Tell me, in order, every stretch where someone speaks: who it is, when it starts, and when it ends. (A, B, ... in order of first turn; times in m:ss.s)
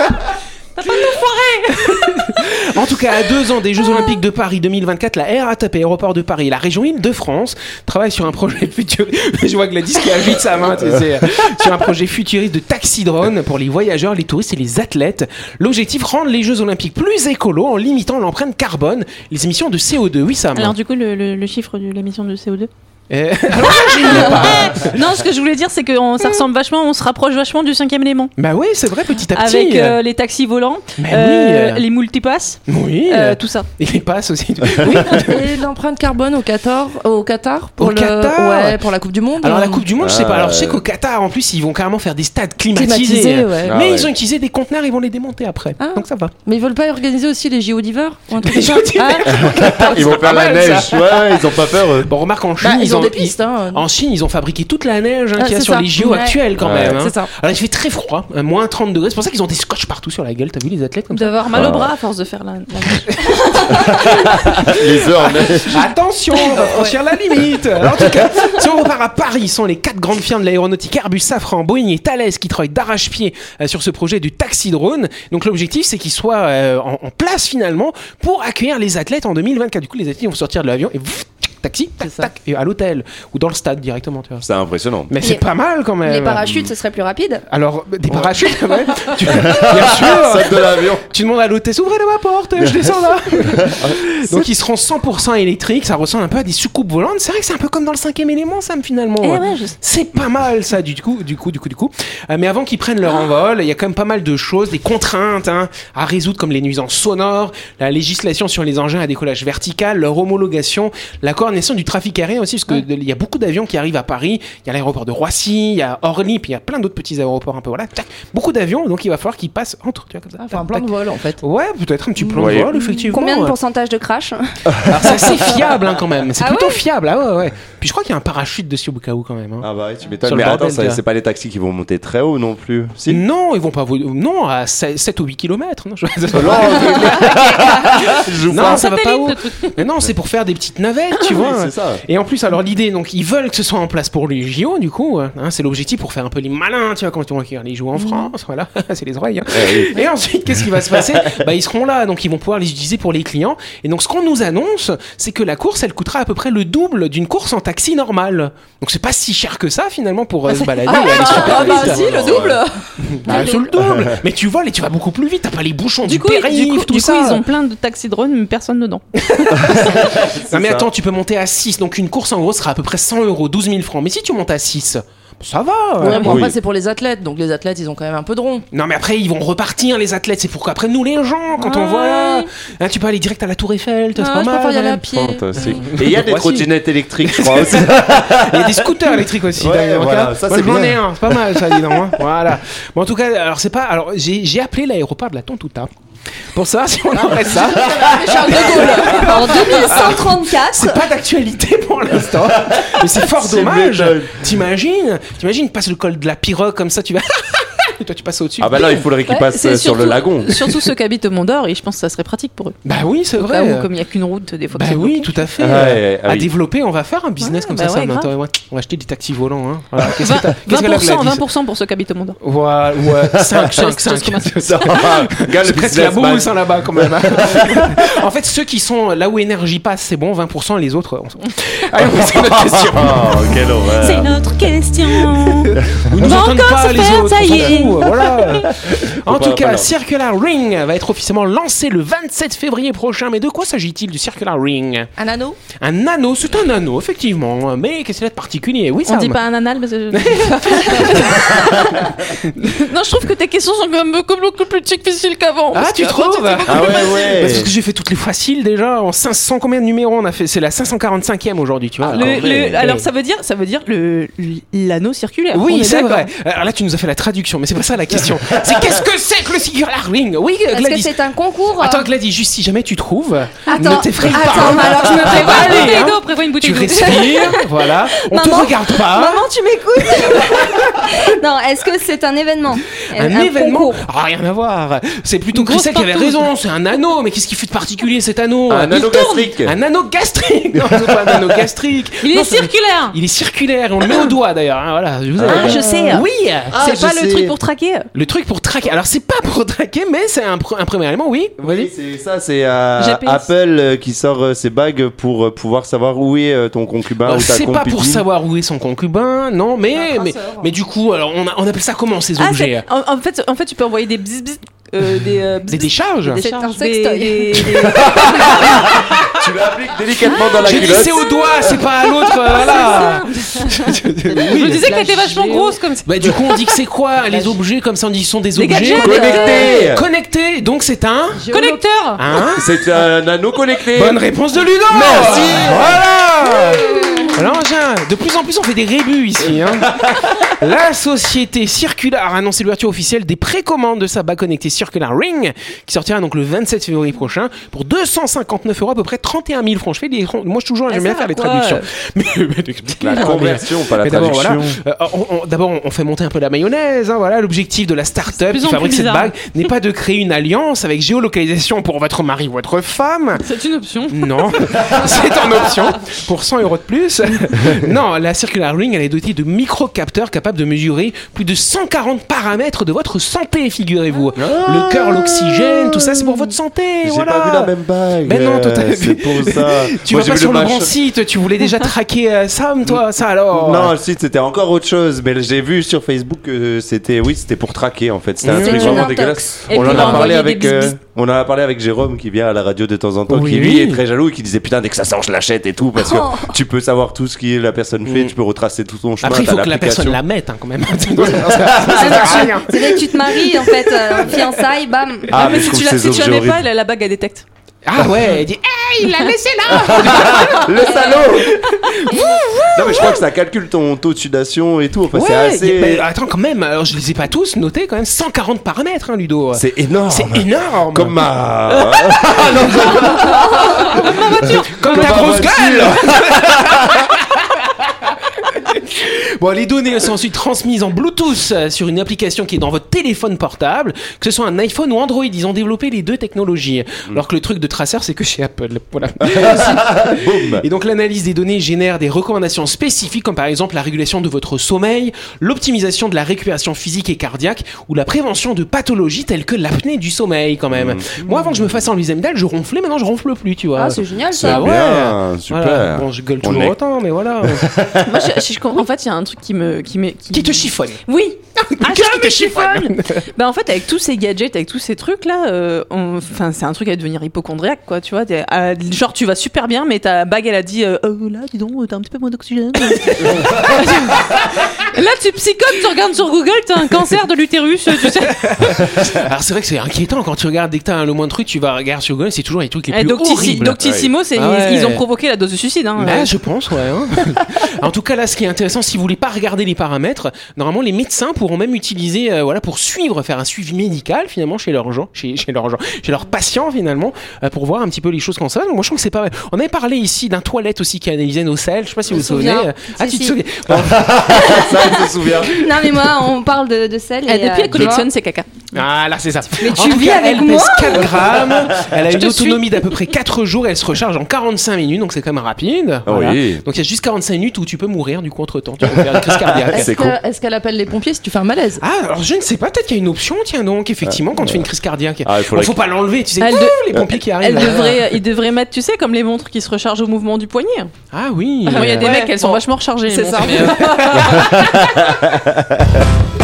0:00.8-0:02.4 A
0:01.8-0:20.7 B
0:20.5-0:22.7 A
0:23.1-0:25.0 B
0:23.6-0:28.3 A
0:28.4-0:30.0 B
0:29.3-0:33.7 A
0:31.0-0:31.8 B
0:32.7-0:35.5 B
0:34.8-0:35.0 C
0:35.1-0:39.9 D
0:37.8-0:38.8 B
0:39.4-0:46.3 B
0:40.0-0:40.8 C
0:42.7-0:43.8 D
0:43.6-0:44.1 C
0:45.8-0:50.1 D
0:48.4-1:01.4 B
0:49.3-0:52.1 C
0:52.6-0:53.9 D
0:55.4-0:57.3 D
0:56.6-0:57.0 C
1:01.1-1:04.4 A
1:01.5-1:01.9 C
1:03.1-1:03.8 B
1:03.7-1:05.8 C
1:05.4-1:24.5 B
1:06.5-1:07.0 D
1:24.4-1:25.1 C
1:25.1-1:26.5 B
1:26.0-1:27.4 E
1:26.4-1:26.7 C
1:27.5-2:00.9 B
1:29.2-1:31.0 C
1:33.6-1:34.1 C
1:39.2-1:39.8 A
2:00.4-2:01.4 D
2:01.4-2:03.6 B
2:02.3-2:02.7 C
2:02.8-2:04.6 E
2:04.7-2:05.7 C
2:04.8-2:09.7 B
2:06.4-2:06.8 E
2:09.6-2:13.2 C
2:10.2-2:11.0 B
2:13.1-2:42.5 B
2:16.3-2:18.9 C
2:18.5-2:19.8 A
2:21.4-2:22.0 C
2:28.0-2:28.3 D
2:29.5-2:30.0 C
2:31.1-2:31.4 C
2:40.8-2:43.7 D
2:40.9-2:41.6 A
2:41.1-2:42.6 C
2:43.0-2:47.4 B
2:43.8-2:44.2 C
2:46.0-2:50.0 A
2:49.2-2:56.4 B
2:49.5-2:50.9 C
2:56.0-2:58.6 D
2:56.0-2:56.4 A
2:56.2-2:56.6 C
2:58.7-3:06.7 B
3:01.6-3:02.5 D
3:04.2-3:05.8 D
3:05.1-3:12.1 C
3:07.2-3:15.9 B
3:16.5-3:29.0 B
3:17.4-3:19.2 C
3:17.4-3:20.0 D
3:19.1-3:21.0 E
3:22.3-3:24.5 C
3:28.6-3:30.6 C
3:29.2-3:32.8 A
3:32.8-3:33.9 B
3:33.4-3:35.8 A
3:34.7-3:41.4 B
3:35.6-3:36.5 C
3:37.4-3:38.3 A
3:40.1-3:42.4 A
3:42.4-3:53.5 B
3:43.2-3:43.8 C
3:43.8-3:44.9 A
3:44.6-3:48.1 C
3:52.0-3:54.3 C
3:54.0-3:58.7 A
3:55.4-4:05.1 B
3:58.9-3:59.9 C
4:05.2-4:05.6 D
4:05.7-4:09.4 B
4:09.0-4:17.2 A
4:10.1-4:11.6 B
4:11.4-4:12.1 C
4:15.7-4:23.0 B
4:16.7-4:17.7 C
4:22.0-4:22.9 C
4:22.1-4:26.3 A
4:25.5-4:31.2 B
4:28.4-4:28.9 C
4:30.7-4:32.1 E
4:31.8-4:39.5 B
4:33.7-4:36.0 E
4:33.9-4:37.6 A
4:37.0-4:44.0 E
4:40.1-4:40.6 B
4:43.1-4:56.8 B
4:45.5-4:46.5 A
4:48.7-4:49.8 C
4:50.7-4:51.7 C
4:52.2-4:53.2 A
4:55.4-4:55.8 C
4:55.4-4:56.3 A
4:55.8-4:56.2 D
4:56.7-4:57.6 C
4:56.8-4:58.1 A
4:58.1-5:01.9 B
5:01.6-5:08.2 C
5:03.0-5:03.5 A
5:07.2-5:12.8 B
5:09.9-5:10.7 D
5:12.4-5:19.0 A
5:15.7-5:16.4 B
5:16.4-5:18.0 E
5:17.8-5:18.9 B
5:17.9-5:21.8 C
5:20.5-5:21.1 A
5:20.6-5:31.5 B
5:22.2-5:26.8 A
5:28.5-5:29.8 A
5:29.0-5:30.0 C
5:31.3-5:31.8 D
5:31.5-5:32.2 A
5:32.2-5:32.7 B
5:32.5-5:34.2 C
5:33.9-6:03.4 B
5:34.9-5:36.6 C
5:36.8-5:37.4 D
5:39.8-5:40.4 C
5:50.9-5:51.8 A
5:53.0-5:54.8 C
5:58.3-5:59.4 A
6:03.4-6:05.0 A
6:04.1-6:17.7 B
6:14.4-6:16.5 C
6:17.0-6:20.9 C
6:18.2-6:23.9 B
6:22.8-6:40.2 C
6:28.4-6:29.1 B
6:28.5-6:30.4 E
6:29.7-6:31.0 A
6:29.8-6:30.2 B
6:33.3-6:34.0 B
6:36.0-6:36.5 E
6:38.1-6:38.3 B
6:39.2-6:44.6 B
6:41.2-6:42.4 C
6:42.0-6:45.4 E
6:45.3-6:46.6 C
6:45.3-6:47.4 A
6:47.8-6:53.2 B
6:48.0-6:48.2 C
6:49.7-6:51.6 C
6:52.7-6:56.1 C
6:55.1-7:01.2 B
6:59.5-7:07.1 C
7:01.7-7:37.6 B
7:03.9-7:05.4 A
7:19.2-7:20.6 C
7:30.7-7:31.7 C
7:33.7-7:34.7 E
7:34.3-7:36.8 C
7:37.4-7:38.3 C
7:38.0-7:58.8 A
7:40.3-7:41.0 B
7:41.6-7:43.2 B
7:53.3-7:53.6 C
7:58.2-8:03.8 B
8:02.9-8:06.3 A
8:03.6-8:04.1 C
8:04.4-8:05.0 B
8:06.0-8:24.6 B
8:22.1-8:23.4 E
8:23.7-8:25.7 C
8:24.3-8:28.1 E
8:27.2-8:28.7 A
8:28.7-8:39.9 B
8:29.6-8:31.3 E
8:32.1-8:33.0 A
8:36.0-8:36.6 C
8:38.8-8:40.2 C
8:39.7-8:41.8 D
8:41.8-8:48.0 B
8:44.0-8:44.7 C
8:45.2-8:45.8 C
8:46.4-8:50.9 A
8:51.1-8:52.2 B
8:51.6-8:54.6 A
8:51.8-8:54.7 D
8:54.2-8:56.0 C